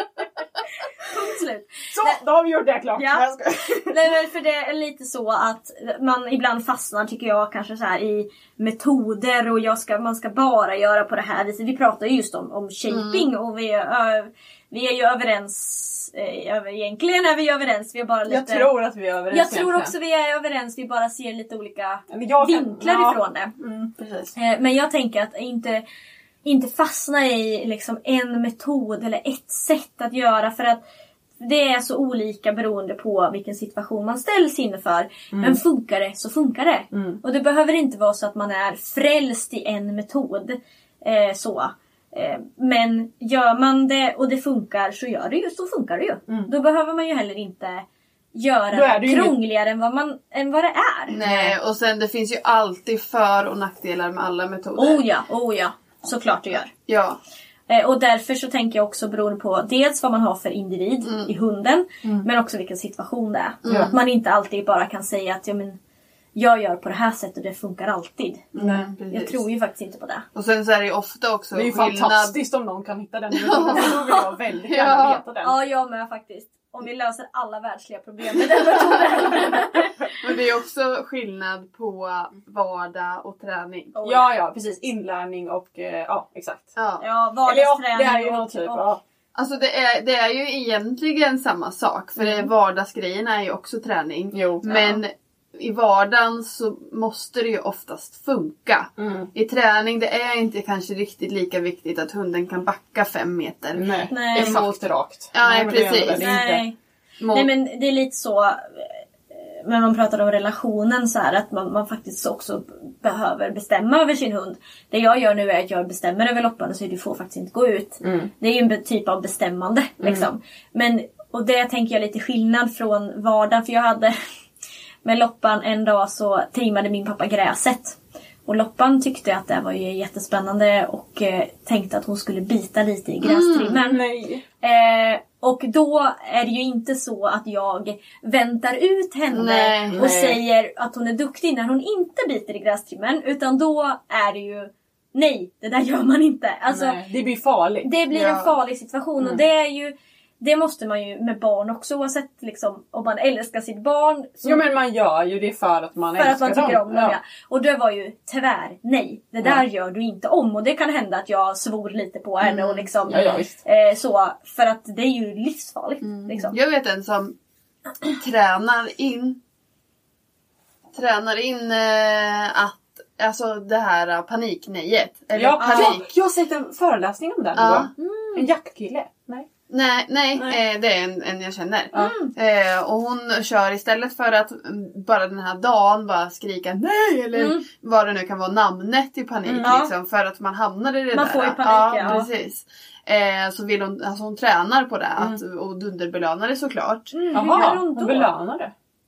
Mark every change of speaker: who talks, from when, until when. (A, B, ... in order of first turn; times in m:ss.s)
0:01.0-0:02.2 A
0:01.9-0:04.0 B
0:03.0-0:03.3 A
0:03.9-0:18.7 A
0:12.9-0:13.3 C
0:18.3-0:19.9 B
0:19.3-0:23.6 A
0:22.1-0:24.4 B
0:24.4-0:25.8 A
0:26.4-0:30.8 A
0:31.4-0:51.6 A
0:35.3-0:35.6 B
0:36.9-0:37.2 B
0:48.7-0:49.4 B
0:51.1-0:55.0 C
0:54.8-0:56.7 A
0:56.9-0:57.2 C
0:57.7-1:05.8 A
1:01.0-1:01.3 C
1:03.6-1:03.9 C
1:03.7-1:03.9 B
1:06.4-1:08.5 A
1:08.6-1:09.4 C
1:08.6-1:08.9 B
1:09.1-1:10.3 A
1:10.4-1:12.4 C
1:11.6-1:15.6 B
1:13.3-1:14.0 C
1:13.7-1:14.1 A
1:14.7-1:15.2 C
1:15.4-1:19.9 A
1:18.7-1:19.5 B
1:20.2-1:23.9 C
1:23.9-1:24.3 A
1:24.0-1:26.8 B
1:26.8-1:27.0 C
1:27.0-1:28.9 A
1:27.4-1:29.0 B
1:29.4-1:46.5 C
1:32.2-1:32.5 A
1:34.3-1:34.7 B
1:34.7-1:35.0 A
1:39.0-1:39.3 B
1:43.8-1:46.6 B
1:44.1-1:44.6 A
1:46.2-1:46.8 A
1:47.2-1:47.5 C
1:47.3-2:04.2 A
1:58.0-1:58.3 B
2:00.0-2:00.3 B
2:05.0-2:14.0 A
2:13.2-2:13.8 C
2:13.8-2:14.4 B
2:14.6-2:27.0 A
2:19.3-2:20.0 C
2:19.9-2:20.4 B
2:26.7-2:27.9 B
2:27.8-2:34.6 A
2:28.1-2:28.5 C
2:34.4-2:37.2 B
2:36.2-2:46.6 A
2:43.0-2:43.6 B
2:46.5-2:47.4 C
2:48.1-2:49.4 C
2:50.9-2:56.1 C
2:55.3-2:59.5 B
2:55.6-2:56.0 A
2:57.6-2:57.9 C
2:58.0-2:58.5 A
2:59.7-3:17.8 C
3:02.0-3:02.3 A
3:07.4-3:07.7 A
3:09.4-3:09.7 B
3:09.6-3:09.9 A
3:11.1-3:12.3 A
3:12.0-3:12.3 B
3:17.1-3:18.3 A
3:17.3-3:18.7 B